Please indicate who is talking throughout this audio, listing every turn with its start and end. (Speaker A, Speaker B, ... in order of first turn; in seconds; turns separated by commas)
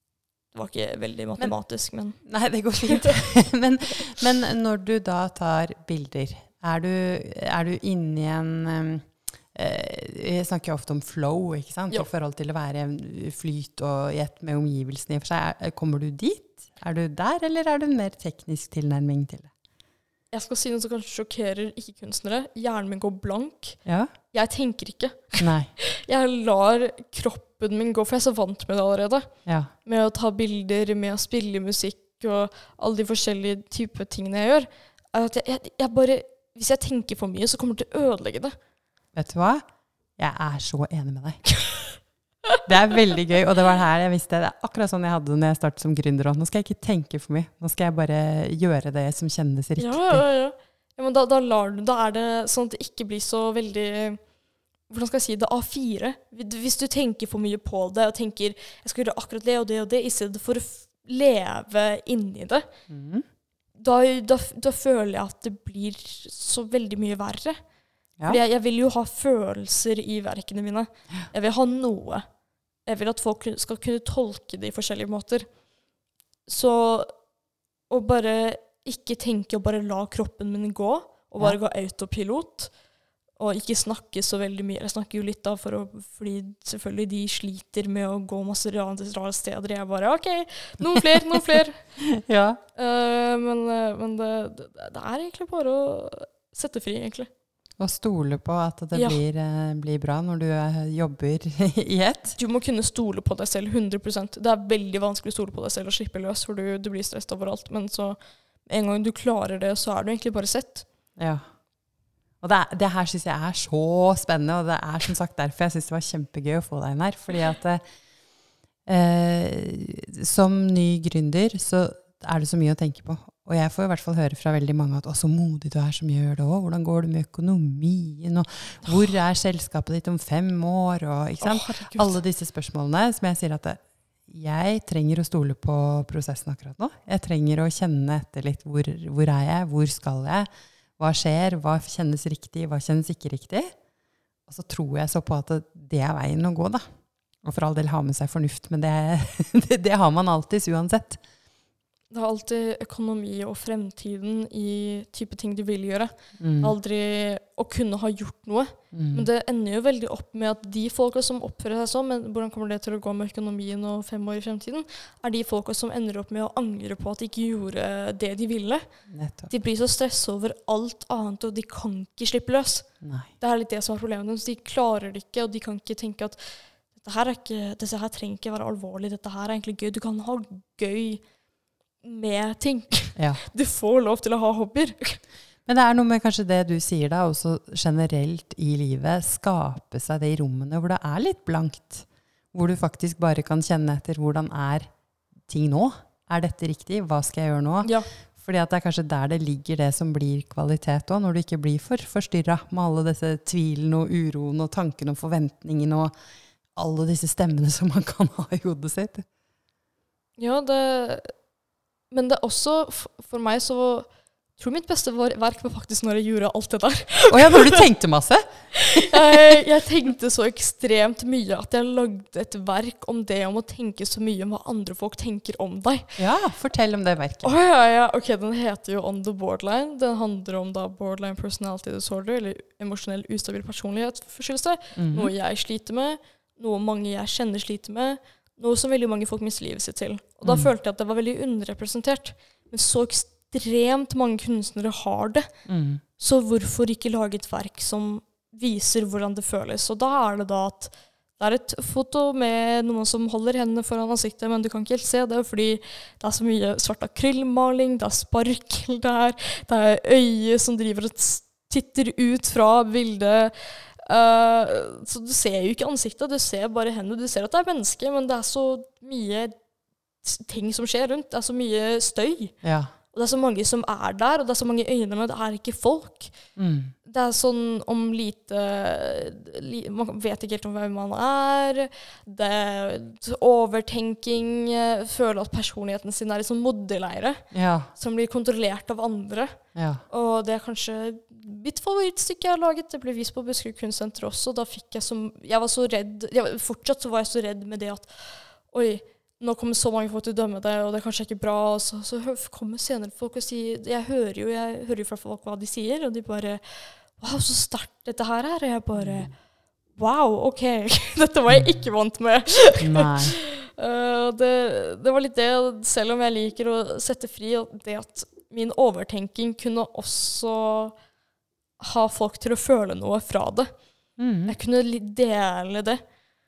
Speaker A: 0.5-2.2, Speaker B: 2.2-19.5, Speaker A: 2.8-3.2, Speaker A: 20.3-23.8, Speaker B: 23.9-24.1, Speaker A: 24.3-29.3, Speaker B: 25.4-25.7, Speaker B: 29.5-29.7, Speaker A: 29.9-38.5, Speaker B: 39.1-39.6, Speaker B: 40.2-41.4, Speaker B: 42.7-50.2, Speaker A: 49.8-54.2, Speaker A: 54.9-62.7, Speaker B: 62.9-63.2, Speaker A: 63.8-67.6, Speaker A: 68.3-72.2, Speaker A: 72.9-75.5, Speaker A: 76.5-77.1, Speaker A: 77.9-82.7, Speaker A: 83.4-91.8, Speaker B: 90.8-92.6, Speaker A: 92.8-97.3, Speaker B: 97.8-102.4, Speaker A: 98.9-99.2, Speaker A: 102.4-110.9, Speaker B: 111.2-111.4, Speaker B: 112.4-117.8, Speaker B: 118.9-140.5, Speaker A: 131.4-132.2, Speaker B: 141.0-143.7, Speaker B: 144.5-146.8, Speaker B: 147.4-151.2, Speaker A: 152.1-168.9, Speaker B: 156.4-156.8, Speaker B: 158.9-159.3, Speaker B: 169.1-169.5, Speaker A: 169.5-172.9, Speaker B: 173.0-173.3, Speaker A: 173.4-176.4, Speaker A: 176.9-181.2, Speaker A: 182.0-185.2, Speaker B: 183.2-183.4, Speaker B: 185.7-194.9, Speaker B: 195.5-206.1, Speaker A: 197.8-198.1, Speaker B: 206.8-209.3, Speaker A: 210.4-211.3, Speaker A: 212.1-214.1, Speaker A: 214.6-217.9, Speaker B: 217.3-219.6, Speaker A: 218.8-226.2, Speaker B: 226.2-227.6, Speaker A: 227.4-245.5, Speaker B: 235.0-235.3, Speaker B: 240.4-240.7, Speaker B: 245.7-246.0, Speaker A: 246.2-269.5, Speaker A: 270.2-272.6, Speaker B: 272.6-272.9, Speaker A: 273.1-276.3, Speaker B: 276.6-276.9, Speaker A: 277.1-289.6, Speaker B: 287.5-287.9, Speaker B: 289.8-290.0, Speaker A: 290.1-309.3, Speaker A: 310.0-320.9, Speaker B: 312.8-313.4, Speaker A: 321.8-323.7, Speaker B: 324.2-324.6, Speaker A: 324.5-326.0